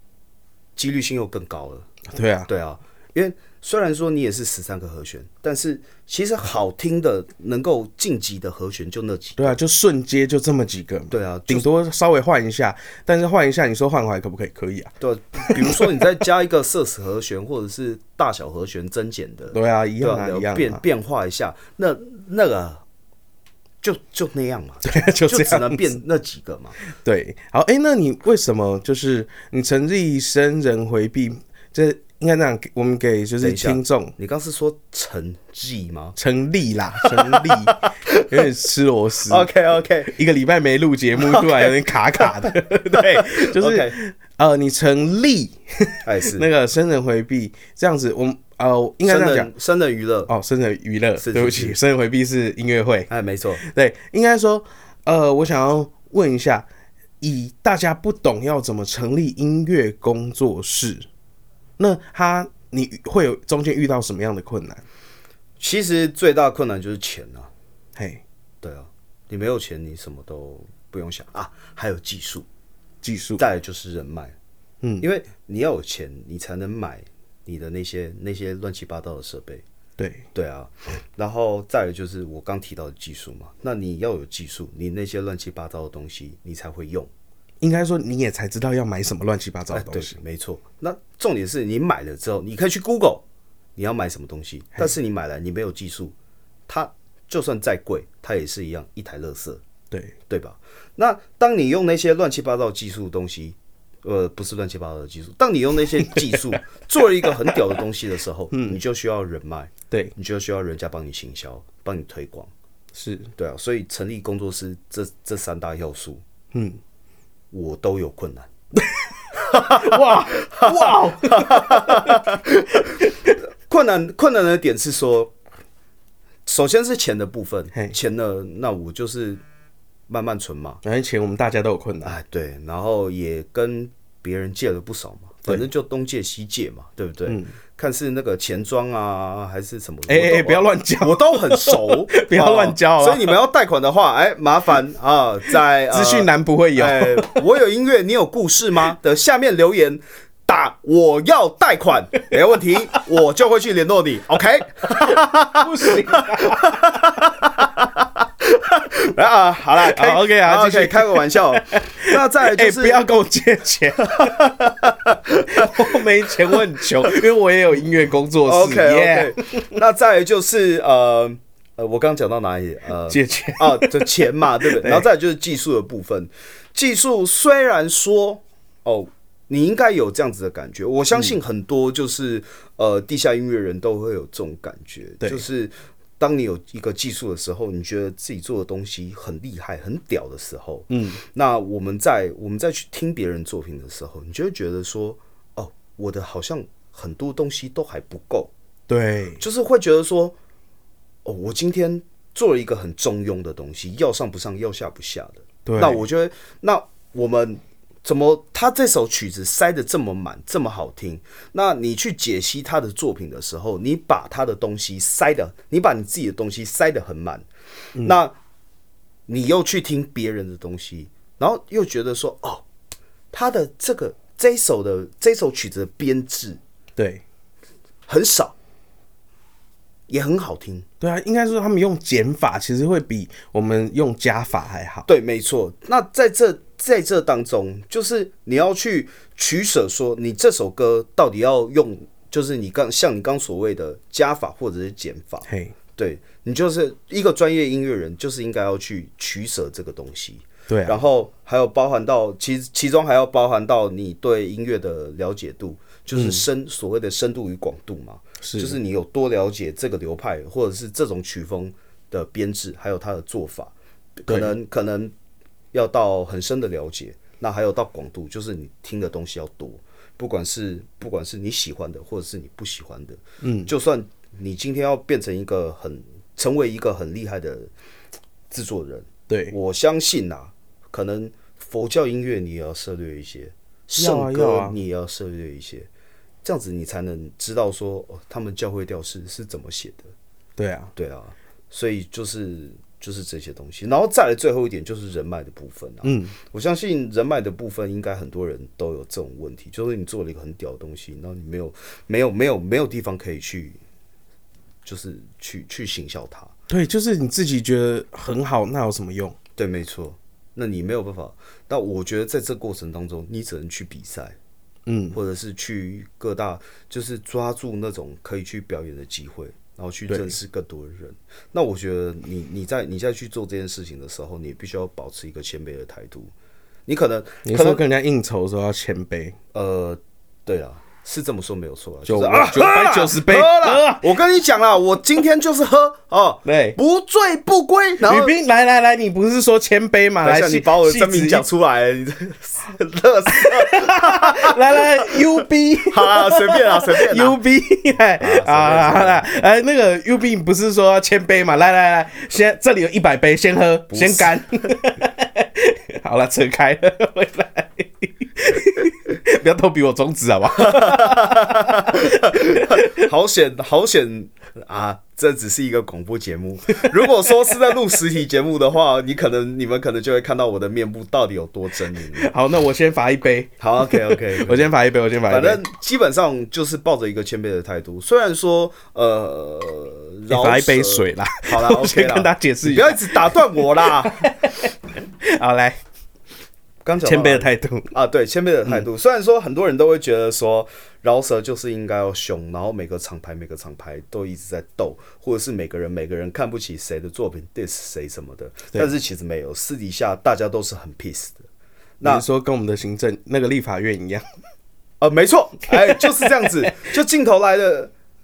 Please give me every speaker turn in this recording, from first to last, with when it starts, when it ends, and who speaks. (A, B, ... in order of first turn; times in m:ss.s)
0:00.8-0:01.9 A
0:02.1-0:02.5 B
0:02.5-0:09.6 A
0:09.4-0:14.9 B
0:11.1-0:11.7 A
0:15.0-0:22.8 A
0:15.5-0:16.0 B
0:19.5-0:20.8 B
0:23.8-0:26.8 A
0:24.8-0:25.8 B
0:27.0-0:34.1 B
0:33.4-0:36.2 A
0:36.2-0:39.5 B
0:37.0-0:38.4 A
0:39.3-0:40.1 A
0:40.1-0:49.5 B
0:41.2-0:44.0 A
0:46.0-0:46.5 A
0:49.0-0:50.3 A
0:50.3-0:53.1 B
0:51.2-0:51.8 A
0:53.1-0:53.6 A
0:53.6-0:56.6 B
0:57.2-1:01.0 B
1:01.8-1:04.8 B
1:05.6-1:07.5 A
1:08.0-1:08.2 B
1:08.6-1:12.4 A
1:13.0-1:13.4 B
1:13.4-1:14.3 A
1:15.0-1:19.6 A
1:20.0-1:20.2 B
1:20.3-1:27.1 A
1:27.6-1:30.2 B
1:29.7-1:33.2 A
1:33.8-1:36.1 A
1:36.7-1:39.6 A
1:40.3-1:52.5 A
1:46.0-1:46.4 B
1:48.5-1:48.8 B
1:52.9-1:53.3 B
1:53.4-1:56.2 A
1:56.5-1:56.8 B
1:57.5-1:58.5 A
1:58.8-2:02.2 B
1:59.4-2:05.3 A
2:03.0-2:03.3 B
2:06.4-2:09.4 A
2:10.1-2:10.8 A
2:10.8-2:12.1 B
2:12.0-2:43.0 A
2:20.1-2:23.4 B
2:25.9-2:27.4 B
2:35.0-2:37.2 B
2:39.8-2:44.5 B
2:44.1-2:47.1 A
2:45.5-2:49.6 B
2:48.4-3:18.5 A
2:53.1-2:54.1 B
2:54.6-2:55.0 B
3:10.9-3:11.2 B
3:18.9-3:19.4 B
3:19.4-3:20.4 A
3:21.2-3:37.4 A
3:25.6-3:26.0 B
3:38.0-3:38.3 A
3:39.3-3:42.6 A
3:43.3-3:46.6 A
3:47.0-3:47.2 B
3:48.1-3:48.6 A
3:50.1-3:50.9 A
3:51.0-3:55.0 B
3:55.1-4:25.1 A
4:05.5-4:05.7 B
4:10.7-4:11.0 B
4:16.1-4:16.4 B
4:18.4-4:18.8 B
4:25.7-4:37.7 A
4:33.4-4:33.7 B
4:38.5-4:45.9 A
4:39.3-4:39.5 B
4:44.0-4:44.8 B
4:46.4-4:50.1 A
4:50.6-4:50.9 B
4:50.9-5:03.8 A
4:56.0-4:56.3 B
5:04.8-5:06.5 A
5:06.7-5:09.3 B
5:09.6-5:14.4 A
5:14.9-5:15.2 B
5:15.1-5:26.3 A
5:26.9-5:27.8 A
5:27.4-5:29.4 B
5:29.5-5:38.4 A
5:32.0-5:34.0 B
5:36.4-5:36.8 B
5:38.0-5:41.4 B
5:40.2-5:47.4 A
5:43.4-6:03.0 B
5:48.2-5:49.2 A
5:53.9-5:54.4 A
6:00.6-6:12.3 A
6:12.1-6:15.6 B
6:13.6-6:14.7 A
6:15.2-6:24.3 A
6:20.3-6:25.8 B
6:26.8-6:41.4 A
6:27.0-6:27.9 B
6:42.0-6:42.2 A
6:42.0-6:44.2 B
6:45.0-6:47.9 A
6:45.7-6:46.5 B